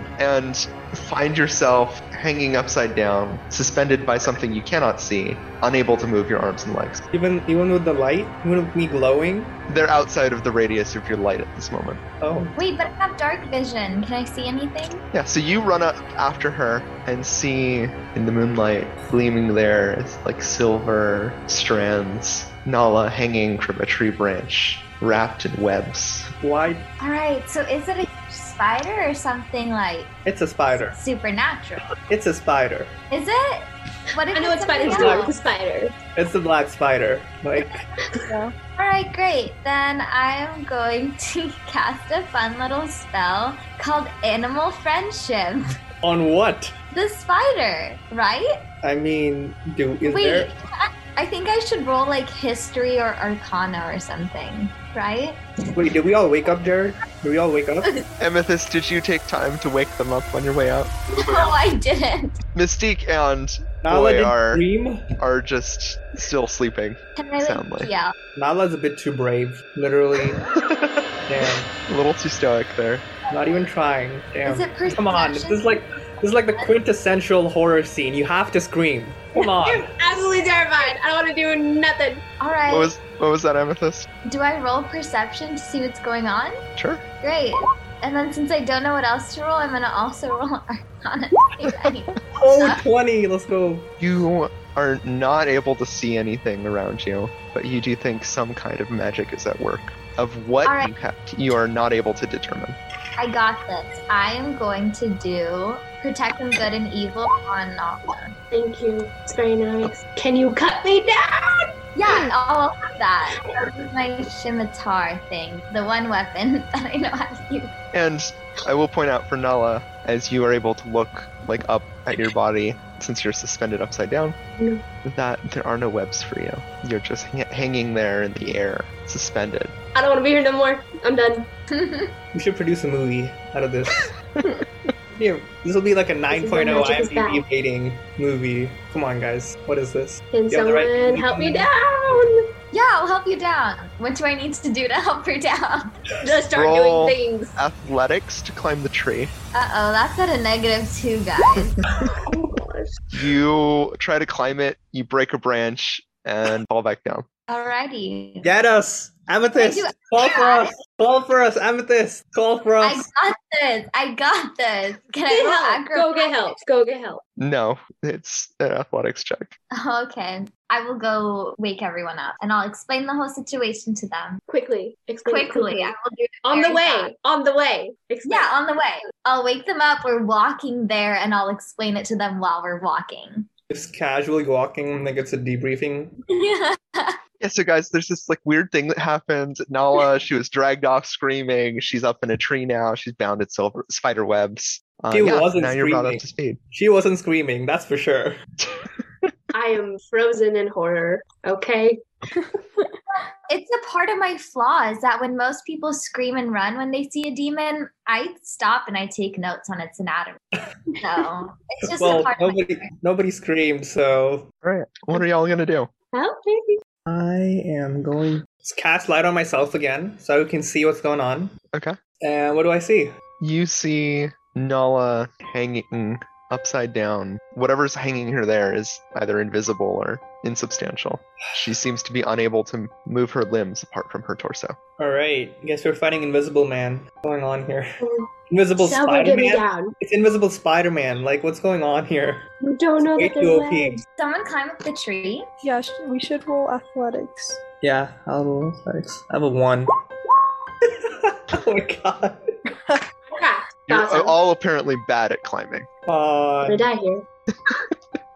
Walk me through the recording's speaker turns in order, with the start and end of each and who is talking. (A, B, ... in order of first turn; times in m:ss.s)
0:00.2-0:07.0 A
0:07.1-0:09.5 B
0:09.7-0:12.0 A
0:12.2-0:12.5 B
0:12.6-0:15.0 C
0:15.1-0:26.3 A
0:26.4-0:26.8 B
0:27.0-0:30.2 C
0:30.2-0:31.0 B
0:30.7-0:31.9 C
0:32.1-0:32.9 B
0:33.1-0:35.4 C
0:34.3-0:36.0 D
0:34.8-0:35.3 B
0:36.2-0:37.8 B
0:38.6-0:45.7 C
0:46.0-0:46.7 B
0:46.9-0:48.5 C
0:48.8-0:50.5 B
0:50.0-0:55.4 C
0:55.8-0:57.9 B
0:58.2-1:01.0 A
1:01.1-1:02.4 C
1:02.6-1:04.6 A
1:03.8-1:05.0 B
1:05.2-1:07.9 A
1:07.2-1:08.1 C
1:08.4-1:10.4 B
1:10.5-1:11.0 A
1:11.3-1:11.7 B
1:11.9-1:13.1 A
1:13.3-1:19.9 B
1:13.3-1:13.6 C
1:14.4-1:15.8 C
1:19.4-1:22.2 D
1:22.4-1:22.9 C
1:22.7-1:24.1 A
1:24.3-1:26.6 C
1:26.8-1:27.0 A
1:27.2-1:32.8 C
1:32.4-1:33.9 B
1:34.0-1:42.8 A
1:40.6-1:40.9 C
1:43.2-1:48.3 C
1:48.5-1:51.7 D
1:52.0-1:57.7 C
1:57.9-2:04.4 A
2:05.0-2:09.8 A
2:10.0-2:11.5 D
2:11.7-2:12.1 C
2:12.3-2:14.1 B
2:15.2-2:21.7 B
2:16.3-2:17.4 D
2:20.3-2:22.4 D
2:22.7-2:25.9 C
2:26.2-2:27.6 D
2:26.5-2:29.3 A
2:29.5-2:31.8 C
2:32.1-2:32.9 D
2:33.1-2:37.3 A
2:37.5-2:38.5 C
2:38.4-2:43.1 B
2:39.6-2:40.7 C
2:42.8-2:46.5 C
2:45.3-2:47.2 D
2:47.4-2:49.5 A
2:49.7-2:54.4 C
2:54.5-2:55.9 D
2:55.3-2:57.1 C
2:56.4-2:58.5 D
2:58.2-3:03.5 C
3:03.7-3:06.1 B
3:06.3-3:07.2 C
3:07.4-3:16.6 A
3:15.1-3:18.4 B
3:19.5-3:22.0 D
3:23.5-3:30.4 C
3:31.0-3:32.9 C
3:31.9-3:34.5 B
3:34.6-3:35.9 A
3:36.1-3:36.8 D
3:37.1-3:41.5 B
3:42.2-3:43.1 B
3:43.4-3:54.8 A
3:55.0-3:58.0 B
3:58.0-3:59.9 D
3:58.5-4:02.4 B
4:02.6-4:04.0 D
4:03.2-4:04.0 B
4:04.2-4:05.5 C
4:05.6-4:07.6 E
4:07.8-4:09.9 B
4:10.8-4:13.0 B
4:13.3-4:14.4 D
4:13.9-4:15.9 A
4:16.1-4:16.9 B
4:16.6-4:17.3 D